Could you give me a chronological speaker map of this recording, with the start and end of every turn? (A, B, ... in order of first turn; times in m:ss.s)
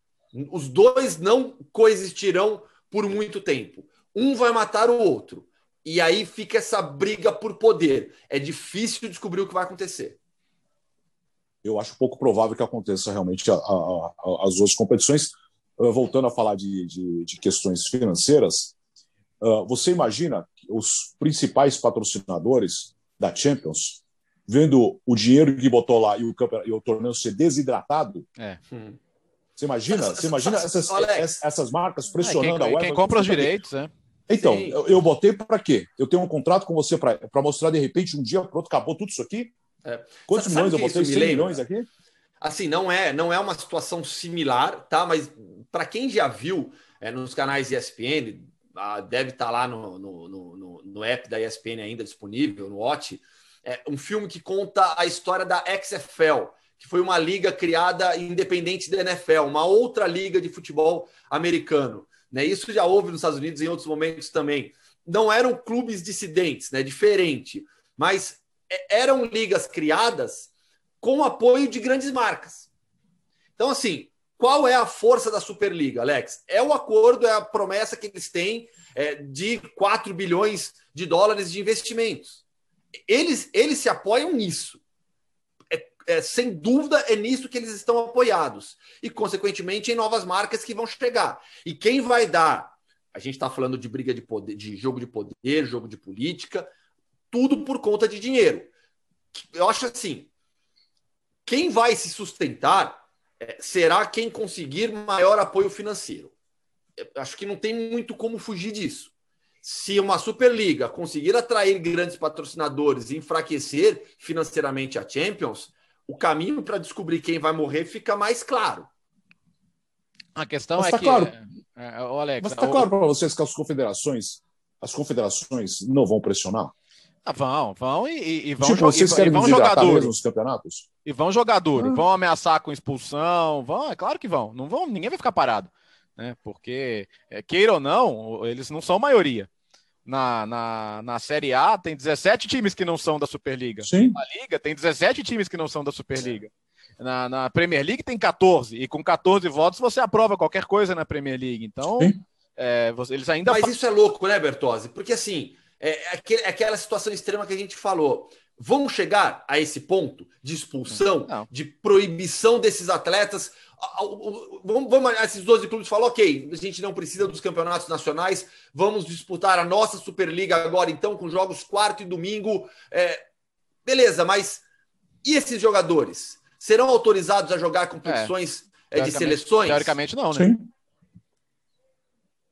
0:00.3-0:10.2 A
0:11.6-0:18.7 B
0:19.4-0:28.3 B
0:28.7-0:29.0 A
0:29.6-0:33.6 B
0:29.9-0:31.4 A
0:32.2-0:33.9 C
0:34.3-0:39.5 B
0:34.3-0:34.9 A
0:39.8-0:41.6 A
0:40.3-0:41.9 B
0:42.4-1:10.5 A
1:11.0-1:12.7 A
1:13.6-1:22.4 A
1:23.1-1:24.8 A
1:25.7-1:36.7 A
1:37.3-1:38.7 A
1:39.3-1:40.3 A
1:41.5-1:46.3 A
1:47.0-1:49.1 A
1:49.6-1:58.9 A
2:00.4-2:02.9 C
2:00.8-2:01.3 B
2:02.4-2:06.7 B
2:07.2-2:10.1 C
2:08.6-2:10.8 B
2:11.0-2:19.5 C
2:11.8-2:12.0 B
2:20.1-2:33.7 C
2:23.8-2:24.2 B
2:33.5-2:53.2 A
2:40.9-2:41.5 C
2:53.8-2:54.6 A
2:55.2-3:00.0 A
2:58.0-2:58.3 C
2:58.9-3:00.5 C
3:00.3-3:00.7 B